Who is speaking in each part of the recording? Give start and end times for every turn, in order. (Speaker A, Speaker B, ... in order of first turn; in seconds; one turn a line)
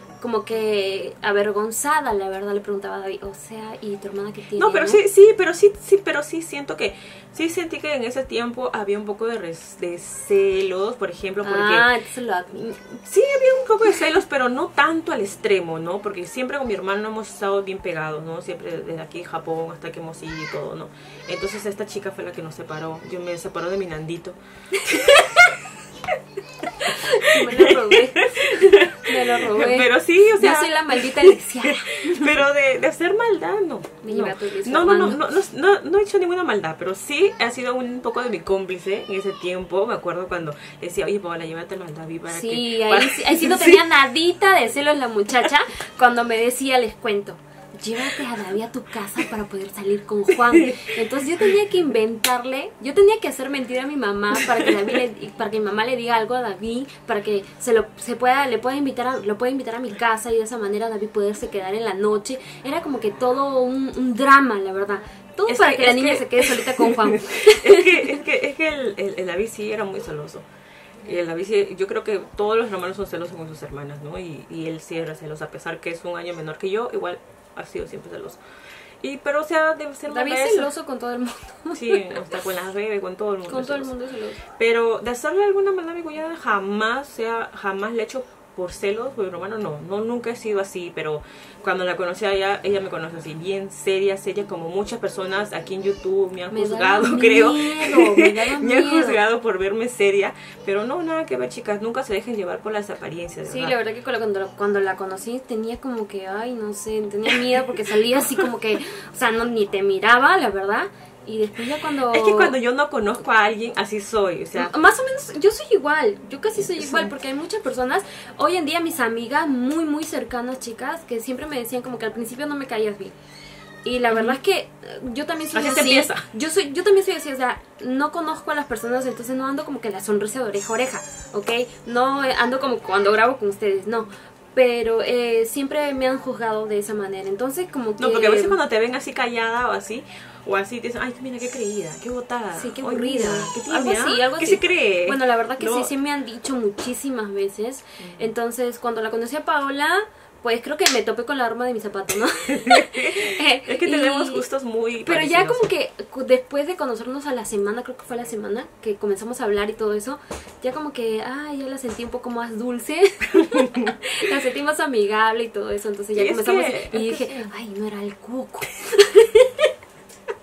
Speaker A: 0.2-5.0
Speaker B: 4.6-11.9
Speaker A: 11.4-12.7
Speaker B: 12.5-25.6
Speaker A: 24.7-25.5
Speaker B: 26.6-43.8
Speaker A: 26.8-32.3
Speaker A: 34.0-35.2
Speaker A: 42.3-68.2
Speaker B: 50.5-51.4
Speaker B: 54.4-55.0
Speaker B: 65.5-70.4
Speaker B: 71.0-78.4
Speaker B: 79.0-80.7
Speaker A: 80.1-82.2
Speaker B: 81.7-83.9
Speaker A: 83.5-84.4
Speaker B: 84.5-103.7
Speaker A: 96.5-99.2
Speaker A: 103.5-112.5
Speaker B: 107.3-107.6
Speaker B: 108.2-108.5
Speaker B: 112.1-114.8
Speaker A: 114.5-123.1
Speaker B: 116.6-117.1
Speaker A: 123.8-138.6
Speaker B: 124.1-124.4
Speaker B: 125.5-126.2
Speaker B: 138.0-145.9
Speaker A: 142.6-154.4
Speaker B: 148.0-148.3
Speaker B: 152.5-155.7
Speaker A: 155.0-169.7
Speaker B: 163.3-163.9
Speaker B: 166.1-167.5